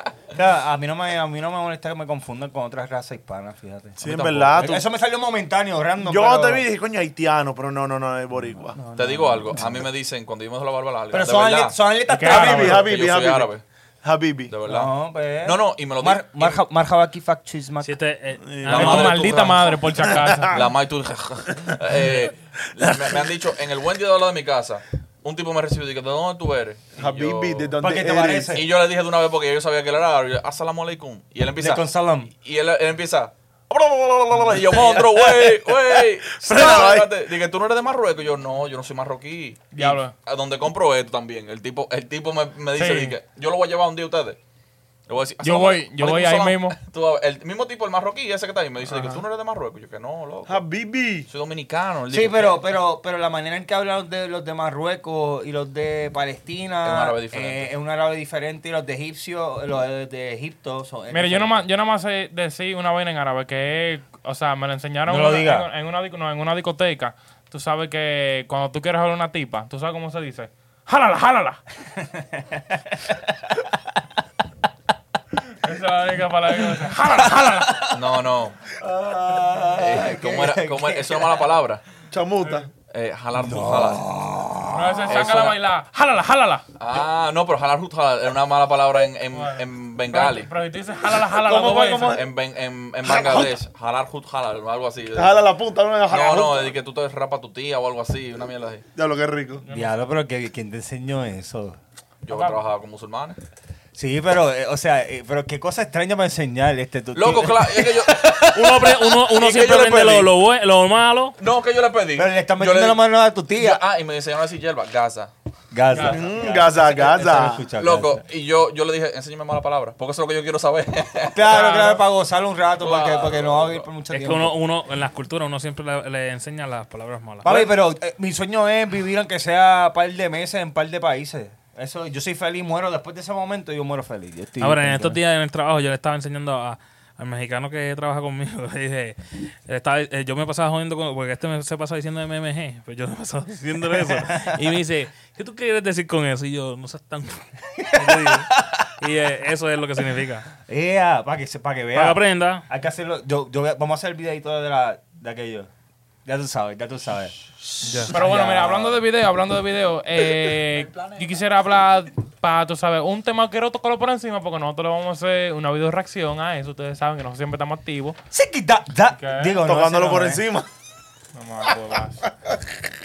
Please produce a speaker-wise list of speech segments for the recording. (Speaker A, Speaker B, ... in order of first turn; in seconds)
Speaker A: 0.3-6.6, 8.7-9.9, 11.1-12.9, 14.7-17.9, 27.8-28.7, 31.6-32.3, 52.1-61.6, 65.1-65.7, 72.0-73.2, 78.8-81.5, 83.3-85.2, 99.7-101.8, 103.9-108.9, 112.2-113.8, 115.7-118.2, 121.3-124.6, 127.4-135.2, 143.9-144.6, 147.8-148.9, 150.7-155.7, 156.2-159.0, 168.3-170.4
Speaker B: 4.0-4.8, 6.0-8.8, 12.3-13.5, 14.0-14.5, 18.5-19.2, 20.1-20.6, 27.0-28.6, 33.7-37.1, 50.5-51.3, 82.1-82.7, 91.1-92.2, 93.0-93.5, 95.1-96.7, 99.0-99.6, 116.0-117.6, 169.6-170.7
Speaker C: 8.9-13.6, 14.5-16.6, 18.6-19.8, 20.5-27.8, 28.5-31.8, 32.4-33.3, 34.4-44.4, 45.1-50.6, 51.3-52.6, 56.8-57.7, 77.9-78.6, 79.8-81.8, 82.9-84.0, 85.1-85.6, 86.8-90.5, 92.1-95.5, 96.1-98.8, 102.2-103.4, 107.1-110.3, 111.4-115.3, 117.7-121.6, 122.8-123.9, 127.4-127.7, 160.7-161.3
Speaker D: 12.1-12.8, 18.7-20.7, 39.7-40.1, 42.7-43.2, 45.4-46.8, 61.1-71.6, 75.6-77.9, 84.7-86.6, 89.3-92.2, 99.6-99.9, 102.3-102.6, 115.9-116.2, 121.5-122.0, 158.1-168.2, 169.2-169.6, 171.3-172.2
Speaker E: 17.8-19.2, 108.5-111.3, 124.1-127.6, 134.6-150.4, 151.9-152.6, 157.8-158.2